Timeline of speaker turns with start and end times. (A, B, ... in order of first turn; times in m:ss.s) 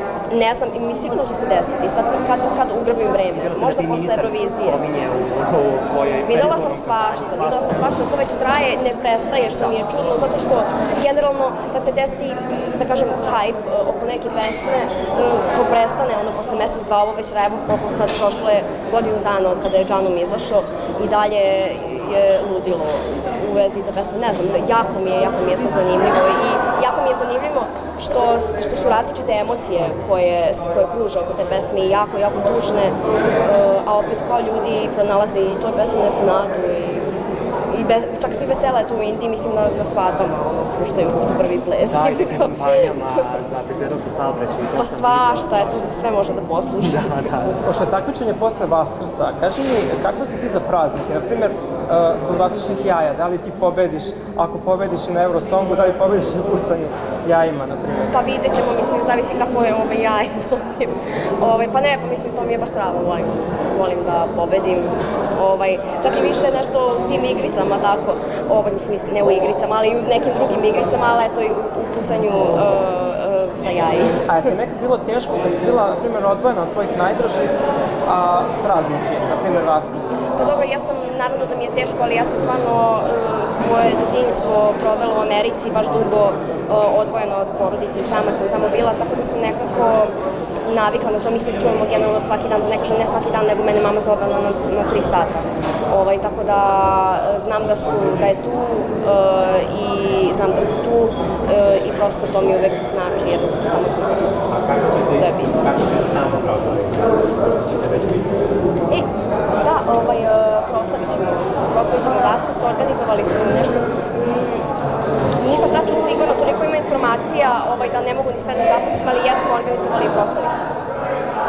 0:00.3-0:04.8 A
0:03.3-0:08.0 B
0:06.3-0:37.1 A
0:37.7-0:43.2 A
0:41.9-0:45.9 B
0:44.8-0:47.3 A
0:46.8-0:47.6 B
0:47.6-0:58.1 C
0:58.1-1:14.5 A
1:14.3-1:17.5 C
1:18.1-1:20.2 C
1:20.3-1:30.1 A
1:30.7-1:44.4 A
1:45.1-1:45.6 A
1:45.6-1:46.1 D
1:46.6-1:48.2 D
1:49.6-1:54.7 A
1:55.4-2:00.7 A